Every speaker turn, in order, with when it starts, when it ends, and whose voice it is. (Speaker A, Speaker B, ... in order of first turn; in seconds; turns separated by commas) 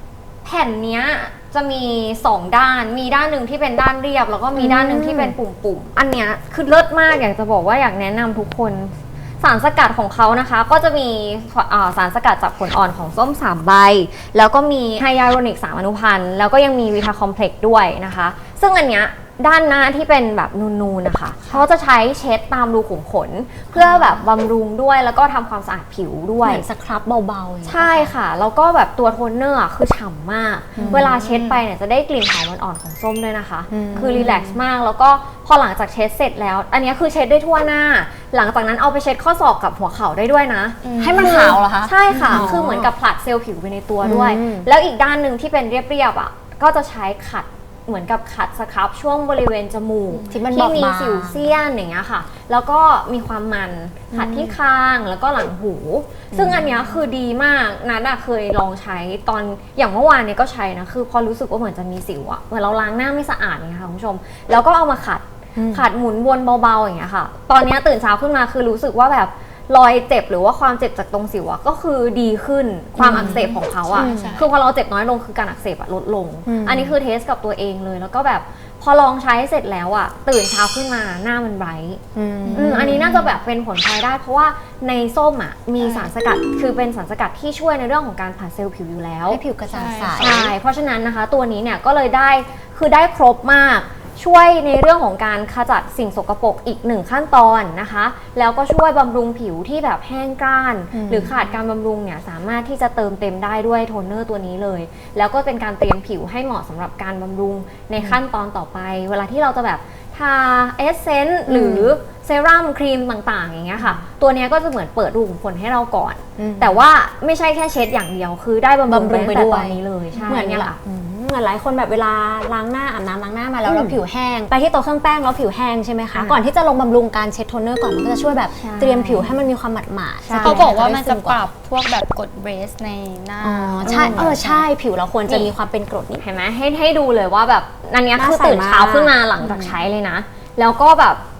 Speaker A: 0.4-26.6, Speaker B: 4.5-5.3, Speaker B: 26.4-28.1, Speaker A: 27.6-82.0, Speaker B: 30.8-31.1, Speaker C: 30.8-31.6, Speaker B: 33.7-34.2, Speaker C: 33.9-34.6, Speaker C: 40.8-41.6, Speaker B: 41.0-42.9, Speaker C: 42.1-42.5, Speaker B: 44.0-44.7, Speaker C: 50.1-50.4, Speaker B: 50.3-51.5, Speaker B: 54.1-54.6, Speaker B: 56.3-56.8, Speaker B: 65.5-65.8, Speaker B: 73.0-74.4, Speaker C: 73.1-74.5, Speaker B: 76.5-77.0, Speaker B: 82.1-83.1, Speaker C: 82.5-83.2, Speaker A: 82.5-89.4, Speaker C: 85.8-86.1, Speaker B: 89.3-90.5, Speaker C: 89.7-90.4, Speaker A: 90.2-120.8, Speaker B: 100.9-101.3, Speaker B: 111.5-111.9, Speaker B: 113.8-114.0, Speaker B: 116.4-116.8, Speaker B: 118.9-131.4, Speaker C: 120.1-120.4, Speaker A: 123.7-123.9, Speaker A: 126.1-126.4, Speaker A: 128.6-129.3, Speaker A: 130.2-130.8, Speaker C: 130.4-134.5, Speaker B: 133.4-136.2, Speaker A: 133.8-134.6, Speaker A: 136.2-141.2, Speaker B: 138.2-139.8